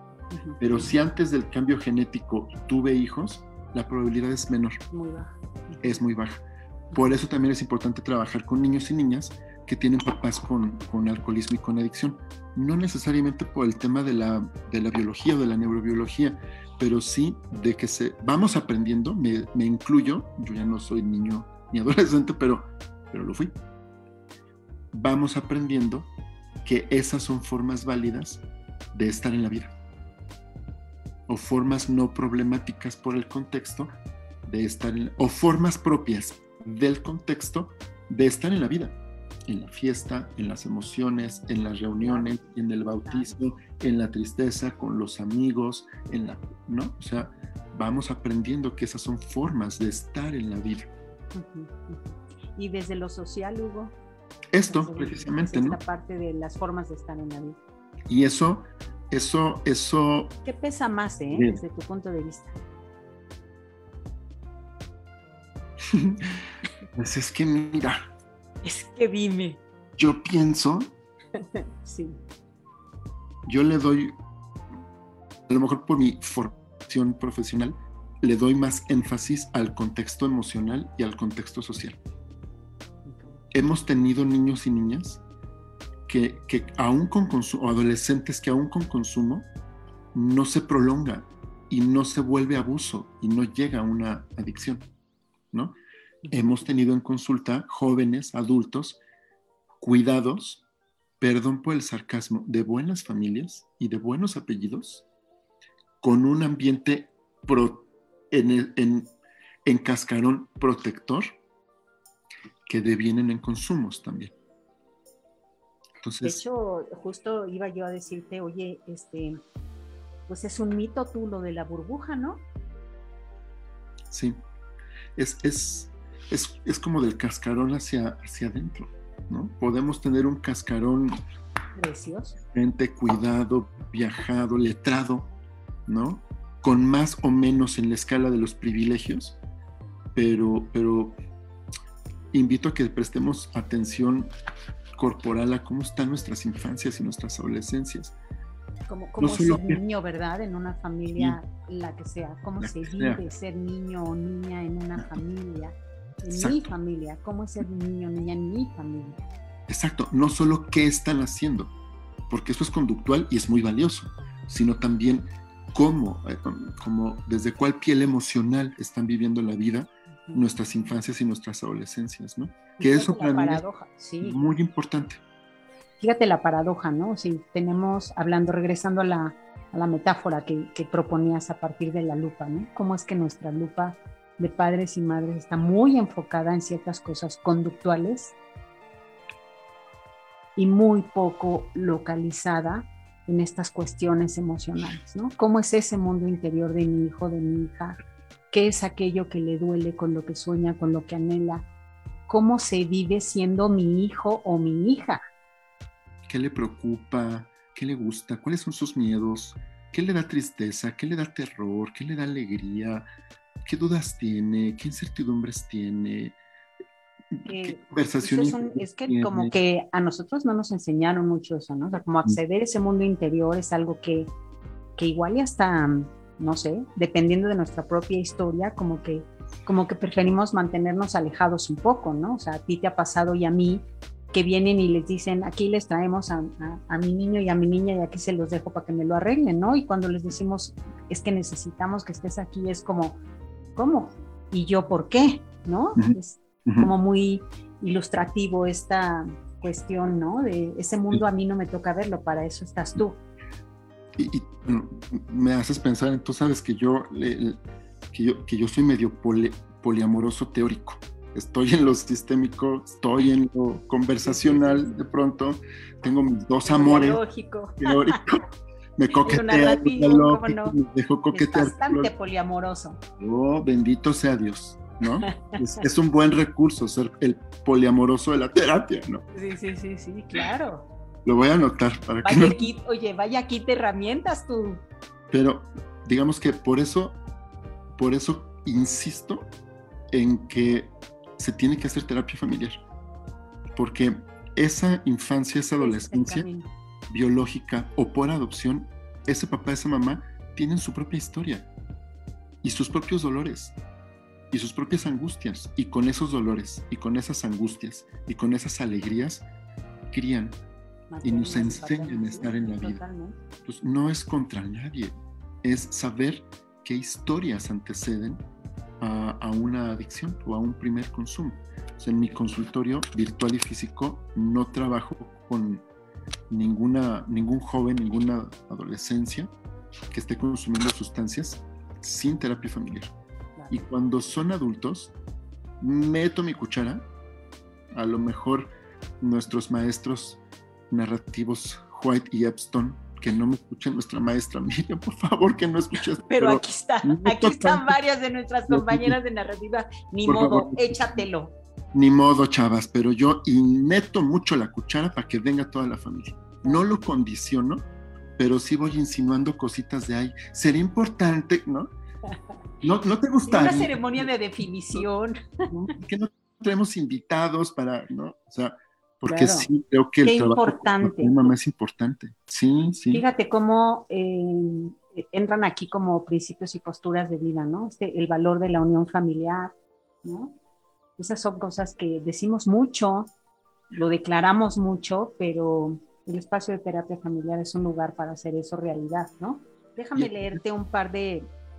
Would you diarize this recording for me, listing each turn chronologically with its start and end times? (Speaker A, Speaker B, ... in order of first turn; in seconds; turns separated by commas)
Speaker A: 0.3-0.6, Speaker B: 0.6-4.8, Speaker A: 4.9-6.0, Speaker B: 5.8-6.4, Speaker B: 6.9-23.5, Speaker B: 24.9-26.1, Speaker B: 26.6-29.7, Speaker B: 31.3-33.9, Speaker B: 34.4-50.9, Speaker A: 42.0-42.4, Speaker A: 43.0-43.3, Speaker A: 51.3-53.9, Speaker B: 54.5-55.8, Speaker A: 54.7-57.6, Speaker B: 58.1-60.3, Speaker A: 60.4-62.6, Speaker B: 61.3-61.6, Speaker B: 65.8-66.4, Speaker B: 66.9-68.0, Speaker A: 68.6-69.6, Speaker B: 70.0-70.9, Speaker A: 71.3-72.2, Speaker B: 73.5-74.2, Speaker B: 75.5-82.0, Speaker A: 83.0-83.4, Speaker B: 83.5-85.2, Speaker B: 86.1-89.5, Speaker B: 90.1-94.8, Speaker B: 95.5-95.8, Speaker A: 96.2-96.5, Speaker B: 96.3-99.0, Speaker B: 99.8-100.6, Speaker B: 101.2-105.0, Speaker B: 106.0-109.1, Speaker B: 109.6-111.3, Speaker B: 112.7-114.3, Speaker B: 116.0-116.4, Speaker A: 116.2-119.4, Speaker A: 120.3-122.4, Speaker B: 124.1-124.4, Speaker B: 125.2-131.2, Speaker A: 131.8-132.4, Speaker B: 132.5-135.3, Speaker B: 135.9-139.4, Speaker B: 140.1-141.2, Speaker B: 142.3-144.3, Speaker B: 144.9-148.2, Speaker A: 148.9-159.2, Speaker B: 149.2-149.8, Speaker B: 152.6-153.2, Speaker B: 156.3-156.7, Speaker B: 159.7-161.7, Speaker B: 162.3-173.6, Speaker A: 172.8-174.5, Speaker B: 174.2-175.2, Speaker A: 176.0-188.3, Speaker A: 190.6-198.0, Speaker A: 198.5-201.7, Speaker A: 202.3-205.2, Speaker B: 206.3-213.1, Speaker B: 213.6-216.4, Speaker B: 217.3-219.5, Speaker A: 217.4-224.3, Speaker A: 225.0-243.2, Speaker A: 243.8-253.2, Speaker B: 254.2-257.6, Speaker B: 258.1-267.2, Speaker A: 264.2-265.0, Speaker A: 266.6-268.2, Speaker B: 267.8-268.4, Speaker B: 269.0-272.1, Speaker A: 269.2-270.8, Speaker A: 271.3-273.0, Speaker B: 273.2-279.2, Speaker A: 275.2-275.7, Speaker A: 279.3-280.9, Speaker B: 281.2-282.7, Speaker A: 282.2-284.8, Speaker B: 285.3-287.2, Speaker B: 287.9-289.5, Speaker B: 290.1-292.8, Speaker B: 293.8-296.5, Speaker A: 295.8-296.7, Speaker B: 297.1-301.7, Speaker B: 302.6-303.8, Speaker B: 304.5-309.4, Speaker B: 310.1-310.6, Speaker A: 311.1-313.4, Speaker B: 311.2-313.0, Speaker B: 313.6-318.4, Speaker B: 319.0-325.8, Speaker B: 326.5-329.5, Speaker B: 330.1-333.1, Speaker A: 333.6-333.8, Speaker B: 333.7-335.1, Speaker B: 335.8-337.1, Speaker B: 337.9-348.0, Speaker A: 346.3-351.5, Speaker B: 348.7-349.2, Speaker B: 350.2-351.2, Speaker B: 351.9-357.9, Speaker B: 358.4-361.9, Speaker B: 362.8-364.3, Speaker A: 363.4-365.7, Speaker B: 365.7-373.2, Speaker A: 369.3-369.7, Speaker A: 370.2-371.4, Speaker A: 373.1-380.6, Speaker A: 381.2-383.3, Speaker A: 383.9-391.5, Speaker B: 390.1-390.6